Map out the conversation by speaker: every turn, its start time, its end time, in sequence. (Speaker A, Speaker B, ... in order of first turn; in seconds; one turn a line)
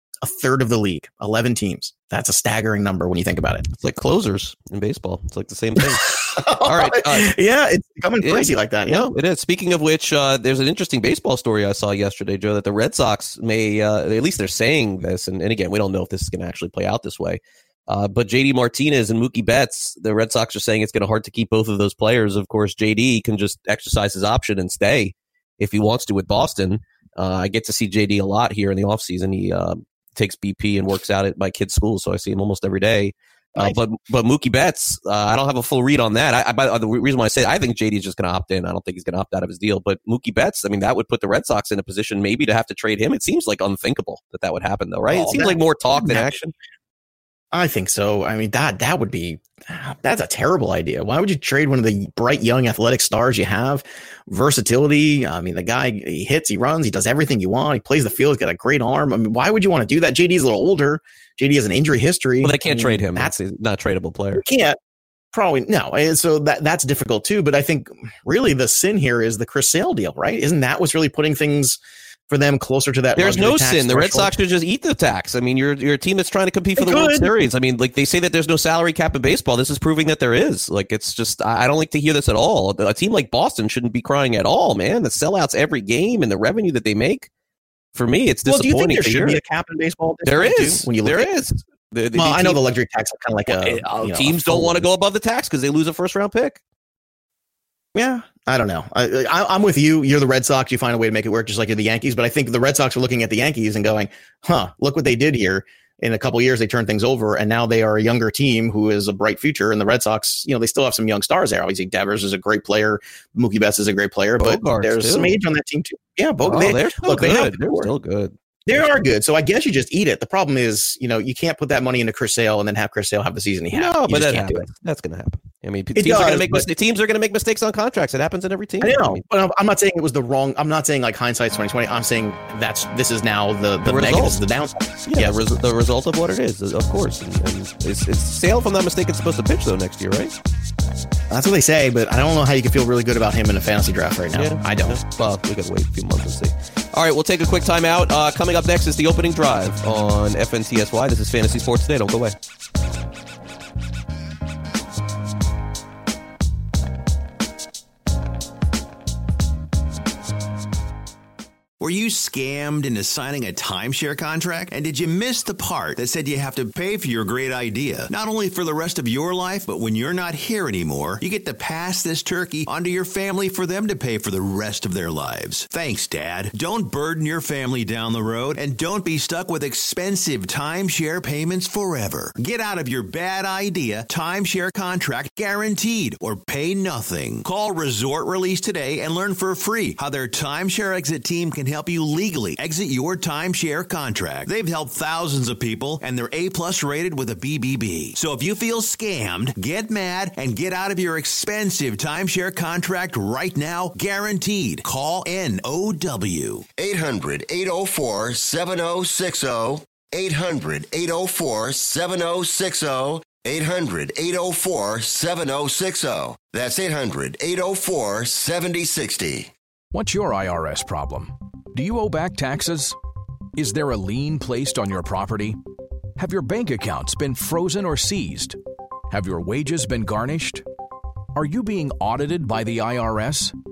Speaker A: 0.2-3.6
Speaker B: 3.7-7.3
Speaker A: 5.8-9.1
Speaker B: 8.2-46.5
Speaker A: 45.1-46.3
Speaker A: 47.5-63.3
Speaker B: 62.4-64.4
Speaker A: 64.3-64.8
Speaker A: 65.3-71.8
Speaker A: 72.3-74.3
Speaker B: 73.2-87.3
Speaker A: 76.8-77.3
Speaker B: 87.9-89.4
Speaker A: 88.5-91.3
Speaker B: 90.2-92.6
Speaker A: 92.2-94.8
Speaker B: 93.5-96.6
Speaker A: 97.9-117.9
Speaker B: 114.4-115.4
Speaker B: 116.4-118.8
Speaker A: 118.7-124.7
Speaker B: 123.7-129.2
Speaker A: 126.0-126.7
Speaker A: 128.8-135.4
Speaker B: 133.8-134.4
Speaker B: 135.1-140.3
Speaker A: 141.3-145.0
Speaker B: 144.3-152.3
Speaker C: 161.8-206.7
Speaker D: 206.8-219.5
Speaker E: 219.9-222.9
Speaker E: 223.6-225.6
Speaker E: 226.2-228.6
Speaker E: 229.1-230.6
Speaker E: 231.3-233.5